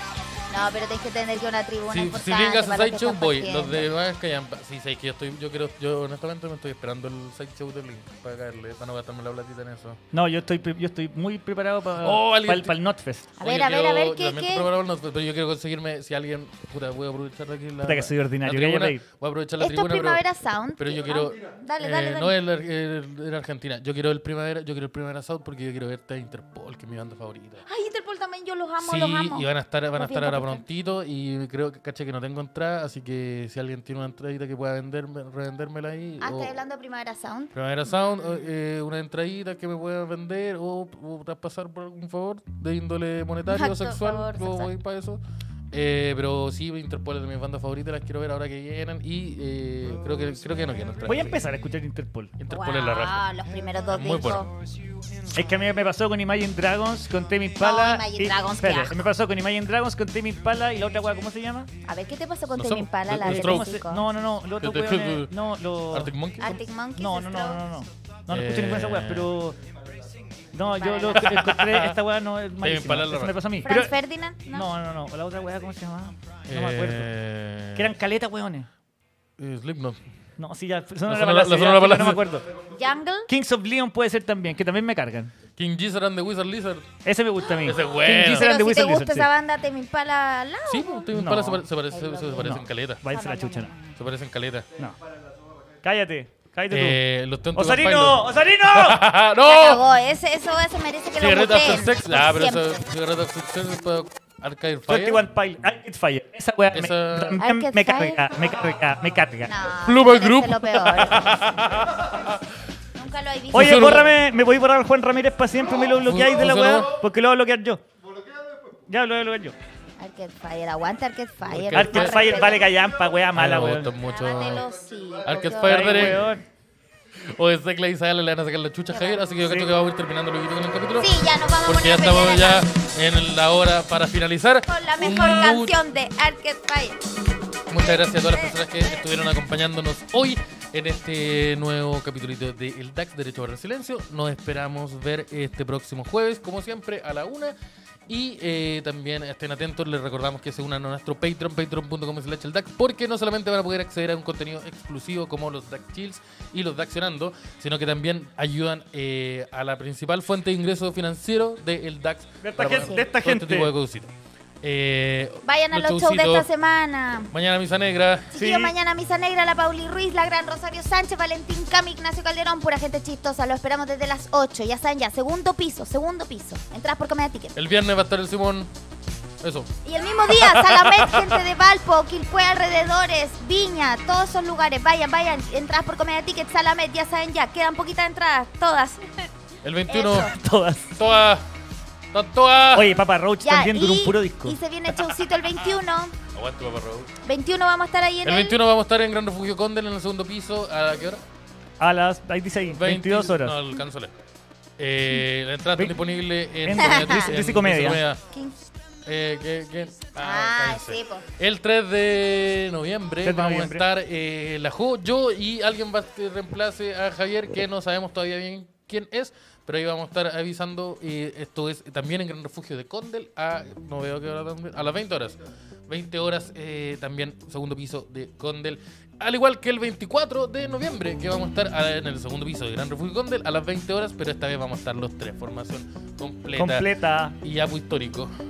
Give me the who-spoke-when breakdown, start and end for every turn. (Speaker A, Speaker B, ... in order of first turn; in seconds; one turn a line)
Speaker A: 0.5-3.9
Speaker B: 1.9-10.0
Speaker C: 10.1-13.3
Speaker B: 12.0-12.8
Speaker A: 13.4-14.7
Speaker B: 13.4-20.2
Speaker C: 17.8-19.0
Speaker A: 19.6-22.3
Speaker B: 20.8-27.6
Speaker A: 27.7-30.6
Speaker B: 28.8-36.6
Speaker A: 36.2-37.5
Speaker B: 37.5-45.2
Speaker A: 43.5-44.7
Speaker B: 45.7-51.4
Speaker C: 51.0-52.4
Speaker B: 52.4-53.2
Speaker A: 52.5-54.5
Speaker B: 53.9-54.5
Speaker C: 55.3-61.7
Speaker A: 57.6-59.0
Speaker A: 61.9-64.0
Speaker B: 62.6-63.8
Speaker C: 63.2-69.6
Speaker B: 64.6-65.4
Speaker B: 65.9-66.5
Speaker A: 66.4-67.6
Speaker B: 68.3-69.3
Speaker C: 70.5-73.9
Speaker A: 70.6-71.3
Speaker B: 71.2-72.0
Speaker B: 72.6-73.4
Speaker A: 73.7-74.7
Speaker C: 74.5-77.1
Speaker B: 76.5-77.9
Speaker C: 77.8-78.7
Speaker B: 79.4-80.0
Speaker C: 80.4-82.5
Speaker B: 81.1-82.3
Speaker A: 82.7-83.3
Speaker C: 83.3-85.3
Speaker B: 85.6-86.9
Speaker C: 87.0-89.3
Speaker B: 87.6-88.5
Speaker A: 88.1-91.0
Speaker B: 90.7-93.0
Speaker C: 91.1-91.6
Speaker A: 91.9-94.0
Speaker C: 92.4-93.7
Speaker B: 94.0-94.7
Speaker C: 95.8-97.0
Speaker B: 96.7-99.9
Speaker C: 97.5-99.0
Speaker A: 99.4-102.8
Speaker B: 101.2-105.2
Speaker C: 104.9-109.5
Speaker B: 106.7-107.4
Speaker A: 107.4-108.2
Speaker A: 109.5-111.7
Speaker B: 109.8-112.4
Speaker A: 113.0-114.1
Speaker C: 113.5-117.8
Speaker B: 113.5-114.1
Speaker B: 116.0-117.0
Speaker C: 118.9-119.6
Speaker A: 120.0-122.7
Speaker B: 121.5-122.4
Speaker C: 121.7-123.9
Speaker B: 123.3-124.7
Speaker A: 124.0-126.2
Speaker B: 125.2-126.4
Speaker C: 125.5-126.5
Speaker B: 127.3-131.1
Speaker A: 128.9-129.3
Speaker C: 129.4-129.7
Speaker A: 131.0-132.6
Speaker B: 131.7-135.8
Speaker A: 134.7-137.0
Speaker B: 137.7-147.5
Speaker B: 148.1-164.1
Speaker C: 162.4-163.7
Speaker A: 162.8-163.0
Speaker B: 164.6-166.5
Speaker A: 165.4-167.3
Speaker B: 167.3-168.3
Speaker A: 168.3-177.6
Speaker C: 168.3-168.7
Speaker B: 177.6-178.7
Speaker B: 179.4-179.7
Speaker A: 179.8-189.3
Speaker B: 180.3-181.4
Speaker B: 189.6-190.3
Speaker A: 189.9-190.3
Speaker C: 190.2-190.9
Speaker B: 191.0-191.4
Speaker B: 192.1-192.9
Speaker C: 192.7-194.6
Speaker A: 193.4-196.2
Speaker B: 196.3-197.1
Speaker A: 197.2-198.6
Speaker B: 198.2-201.2
Speaker C: 201.8-203.6
Speaker B: 202.8-204.1
Speaker B: 204.8-208.2
Speaker C: 206.6-208.0
Speaker A: 206.8-207.3
Speaker A: 208.3-208.6
Speaker B: 209.1-236.9
Speaker A: 210.2-211.3
Speaker C: 213.2-213.9
Speaker C: 236.6-237.4
Speaker B: 237.4-238.3